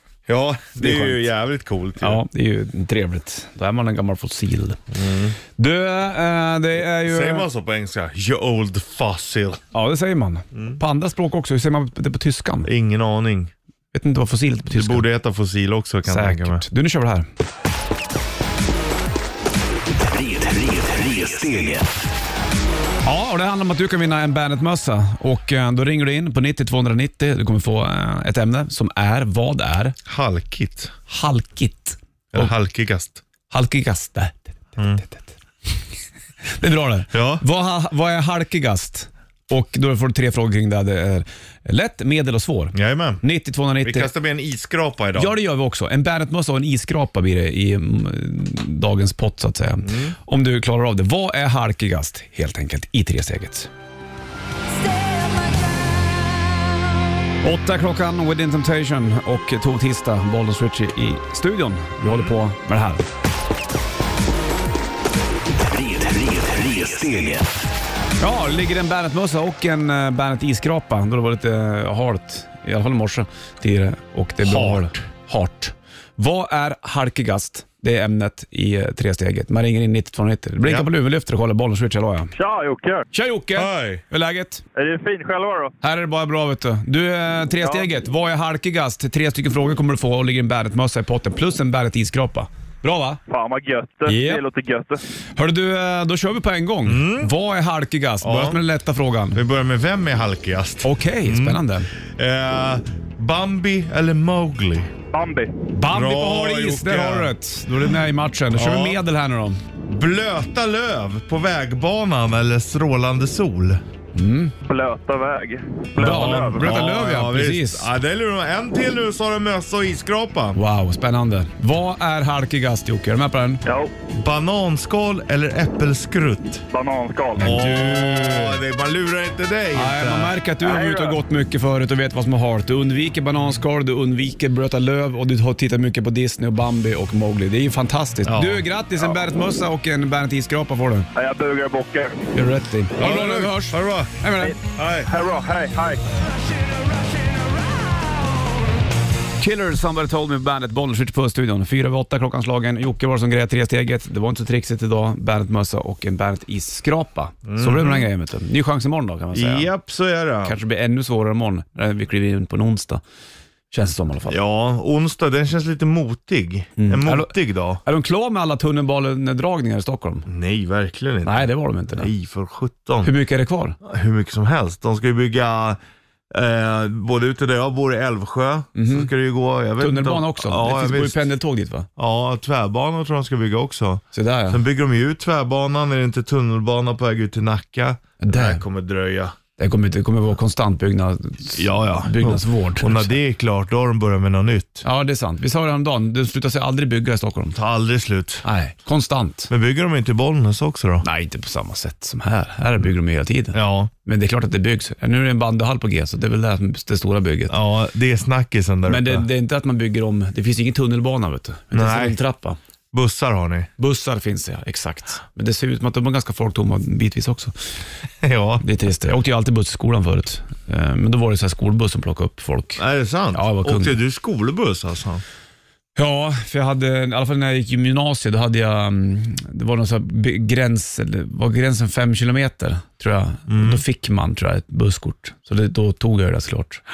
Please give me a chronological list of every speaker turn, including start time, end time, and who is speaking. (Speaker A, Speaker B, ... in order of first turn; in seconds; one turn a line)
Speaker A: 0.3-2.2
Speaker B: 0.8-1.3
Speaker B: 2.0-4.8
Speaker A: 4.9-5.4
Speaker B: 5.6-7.5
Speaker A: 7.0-9.6
Speaker B: 9.7-12.7
Speaker A: 10.5-10.8
Speaker A: 12.6-13.5
Speaker B: 13.9-15.1
Speaker A: 14.7-16.6
Speaker B: 16.1-17.3
Speaker C: 20.1-21.9
Speaker B: 23.0-29.9
Speaker A: 30.1-30.9
Speaker B: 31.1-32.5
Speaker A: 32.3-33.2
Speaker B: 33.5-35.3
Speaker A: 34.8-35.0
Speaker B: 36.5-44.1
Speaker A: 37.1-37.4
Speaker A: 42.7-43.2
Speaker A: 43.8-45.4
Speaker B: 45.1-53.7
Speaker A: 49.8-50.1
Speaker B: 57.4-63.0
Speaker A: 62.0-62.4
Speaker C: 65.6-67.5
Speaker B: 68.2-82.3
Speaker A: 74.4-74.9
Speaker A: 80.6-80.9
Speaker D: 82.3-83.1
Speaker B: 83.1-84.6
Speaker A: 83.5-84.0
Speaker D: 84.8-85.7
Speaker B: 85.8-93.2
Speaker D: 93.3-95.0
Speaker B: 94.0-94.4
Speaker B: 95.3-99.4
Speaker A: 96.8-97.3
Speaker A: 98.2-98.6
Speaker A: 99.3-104.9
Speaker B: 100.8-101.9
Speaker D: 105.1-105.6
Speaker B: 105.7-109.6
Speaker A: 105.9-107.3
Speaker A: 108.5-109.0
Speaker A: 109.8-113.8
Speaker B: 114.1-114.5
Speaker D: 114.7-116.8
Speaker B: 116.0-117.9
Speaker A: 116.0-120.6
Speaker B: 120.5-123.6
Speaker D: 123.7-123.9
Speaker A: 124.1-126.6
Speaker D: 126.7-127.5
Speaker B: 127.4-128.6
Speaker A: 127.4-130.3
Speaker B: 129.7-141.1
Speaker D: 130.6-131.2
Speaker A: 138.2-139.2
Speaker D: 141.1-142.2
Speaker B: 142.3-144.5
Speaker A: 143.0-144.1
Speaker D: 144.4-146.0
Speaker A: 144.8-145.1
Speaker B: 149.4-159.7
Speaker A: 157.5-158.1
Speaker A: 159.3-160.6
Speaker B: 160.4-163.0
Speaker B: 163.7-164.4
Speaker A: 164.3-167.8
Speaker B: 166.8-170.3
Speaker A: 170.3-173.1
Speaker B: 171.2-172.1
Speaker B: 173.0-173.8
Speaker A: 173.8-175.8
Speaker A: 176.3-181.2
Speaker B: 178.8-179.1
Speaker B: 179.8-181.9
Speaker A: 182.0-189.3
Speaker B: 184.1-184.6
Speaker B: 188.2-188.6
Speaker B: 189.6-193.2
Speaker A: 191.5-194.8
Speaker B: 194.8-197.6
Speaker A: 197.5-198.4
Speaker B: 198.4-199.5
Speaker A: 199.5-201.0
Speaker B: 201.0-207.6
Speaker A: 203.5-203.9
Speaker A: 207.5-209.2
Speaker B: 208.9-212.6
Speaker A: 211.7-212.2
Speaker A: 212.9-213.7
Speaker B: 213.8-217.5
Speaker A: 218.2-218.6
Speaker B: 218.6-222.8
Speaker A: 222.8-225.2
Speaker B: 223.3-224.0
Speaker B: 225.9-236.8
Speaker A: 233.5-233.8